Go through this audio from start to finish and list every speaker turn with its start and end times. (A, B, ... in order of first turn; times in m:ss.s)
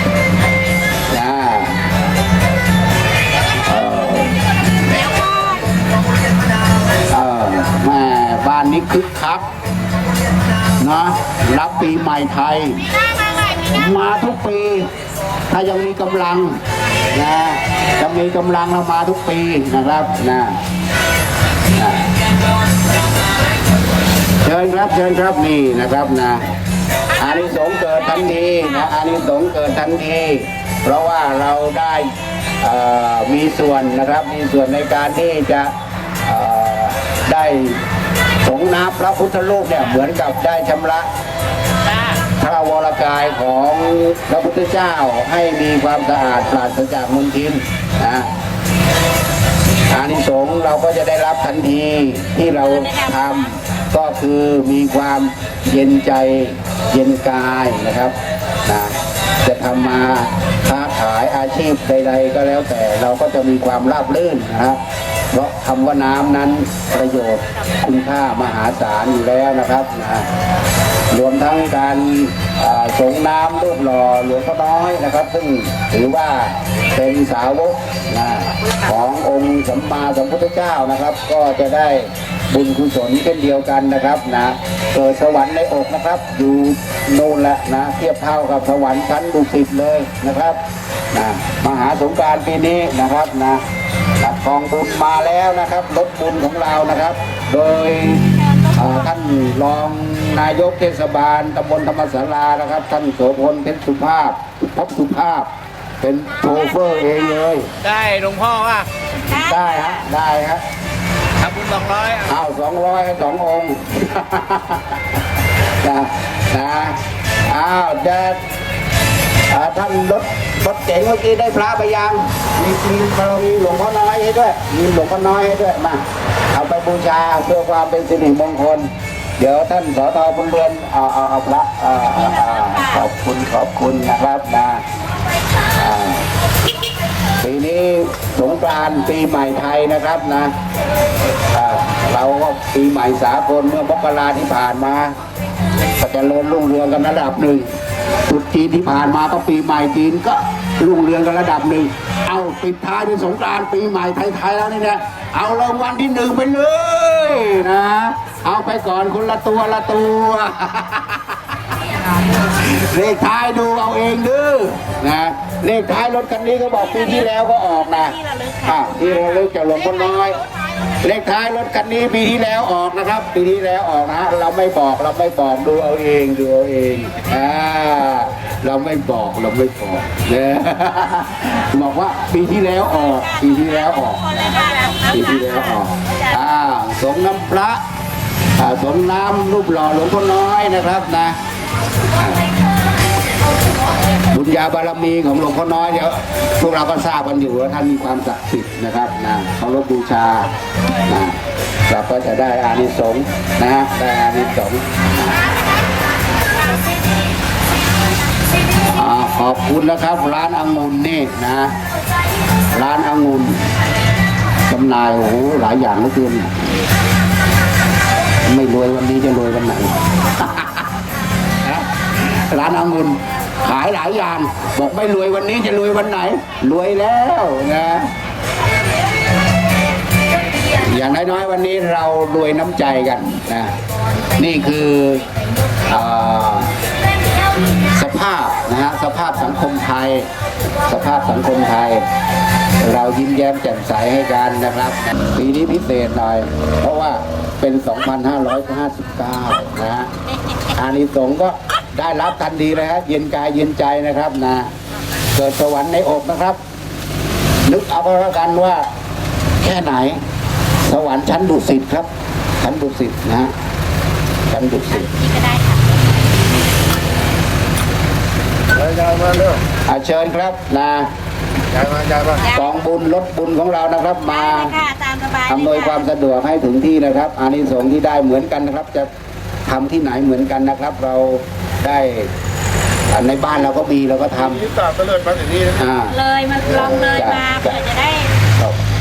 0:01.1-0:01.8 A
0:03.6-0:04.4 A
0:07.1-0:09.4 A
0:10.8-0:12.9 A
0:13.7-0:14.9 A
0:15.5-0:16.6 A
0:17.1-0:20.6 A
0:21.8-0:22.1 A
0:24.4-0:26.5 A
0:27.1-0:37.8 A
0:38.4-0:41.1 A
0:42.4-0:48.3 A
0:49.9-1:04.8 A
0:52.8-0:53.1 B
1:05.3-1:10.3 A
1:11.1-1:30.6 A
1:31.1-1:33.6 A
1:34.2-1:45.5 A
1:38.4-1:38.9 B
1:46.0-1:47.7 A
1:47.8-1:48.9 C
1:49.3-1:50.0 B
1:49.3-1:50.6 A
1:51.4-1:52.2 C
1:52.2-1:55.0 A
1:55.8-1:58.4 A
1:59.5-2:14.8 A
2:12.2-2:13.0 B
2:15.8-2:16.3 A
2:17.4-2:20.5 A
2:21.5-2:25.2 A
2:26.0-2:27.7 A
2:28.3-2:41.5 A
2:42.4-2:50.4 A
2:48.1-2:49.3 B
2:51.0-3:07.8 A
3:03.1-3:05.8 B
3:08.6-3:11.4 A
3:12.2-3:12.4 A
3:14.3-3:20.5 A
3:21.0-3:25.4 A
3:28.9-3:31.8 A
3:32.7-3:33.6 A
3:34.7-3:36.6 A
3:38.5-3:40.9 A
3:41.6-3:48.1 A
3:50.7-3:53.7 A
3:54.4-3:55.2 A
3:55.9-3:56.8 A
3:57.9-4:00.3 A
4:00.9-4:02.0 A
4:02.8-4:10.1 A
4:10.7-4:14.7 A
4:15.3-4:16.6 A
4:17.6-4:18.9 A
4:19.6-4:20.2 A
4:20.8-4:22.1 A
4:22.6-4:23.5 A
4:24.5-4:25.1 A
4:25.0-4:26.0 B
4:28.8-4:29.6 C
4:29.8-4:31.1 A
4:31.8-4:32.3 C
4:32.3-4:32.6 B
4:32.5-4:34.8 A
4:34.4-4:36.0 B
4:35.5-4:39.1 A
4:39.7-4:42.3 A
4:43.1-4:44.9 A
4:44.8-4:45.7 C
4:45.6-4:47.7 A
4:46.1-4:48.4 B